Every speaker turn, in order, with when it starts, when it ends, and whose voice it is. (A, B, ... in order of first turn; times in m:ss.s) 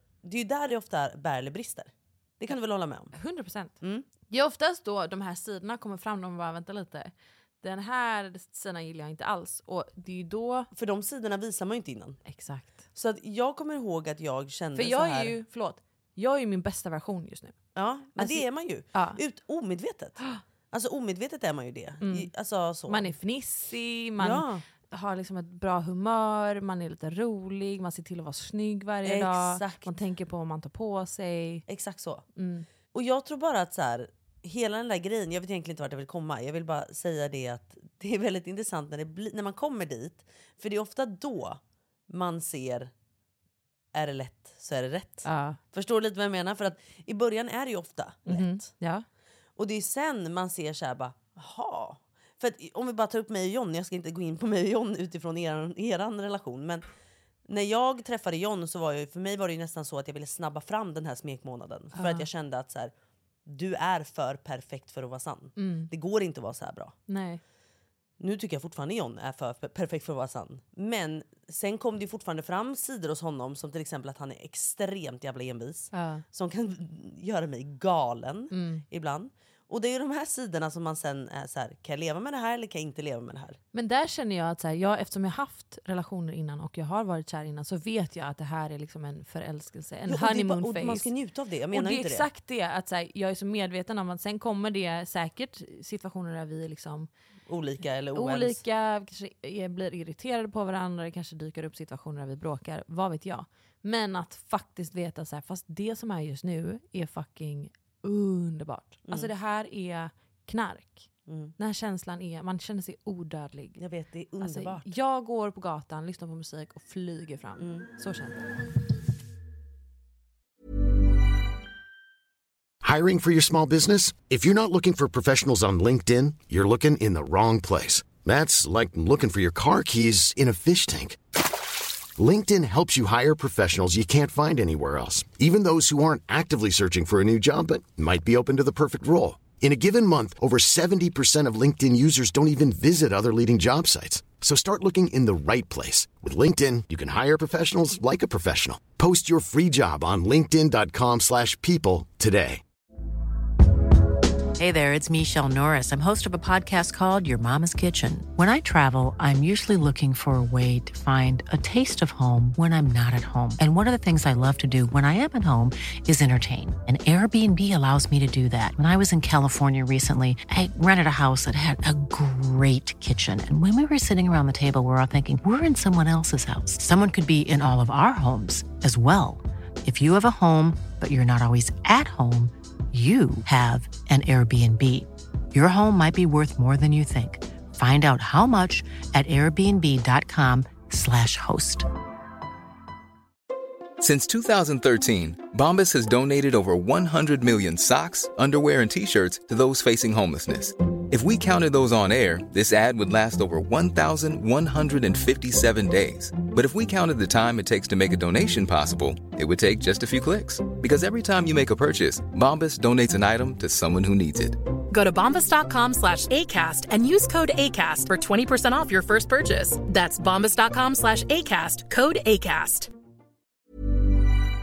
0:00.2-0:03.1 A
0:03.1-0:03.8 B
0:03.8-0:04.0 A
0:04.3-0:10.7 B
0:10.7-0:12.2 A
0:12.2-0:12.8 B
0:12.9-0:15.3 A
0:14.7-0:17.6 B
0:17.8-0:20.2 A
0:18.2-0:19.2 B
0:20.7-0:23.1 A
0:22.0-0:22.3 B
0:22.9-0:31.6 B
0:24.2-0:24.6 A
0:29.0-0:29.9 A
0:31.7-0:32.2 A
0:32.4-0:32.7 B
0:32.9-0:42.9 A
0:43.9-0:48.7 A
0:45.2-0:45.6 B
0:48.3-0:49.0 B
0:49.6-0:56.8 A
0:57.5-1:02.9 A
1:01.9-1:02.2 B
1:03.4-1:06.9 A
1:05.6-1:05.9 B
1:07.1-1:07.4 B
1:08.2-1:23.6 A
1:15.9-1:16.2 B
1:18.5-1:18.8 B
1:23.7-1:31.1 B
1:30.1-1:32.3 A
1:31.7-1:37.1 B
1:37.5-1:38.6 A
1:38.1-1:53.8 B
1:51.3-1:51.5 A
1:53.8-1:54.9 A
1:54.4-1:58.4 B
1:57.6-1:57.9 A
2:02.8-2:11.2 C
2:12.2-2:32.6 C
2:34.6-3:11.8 D
3:14.0-3:34.6 E
3:34.9-3:42.9 F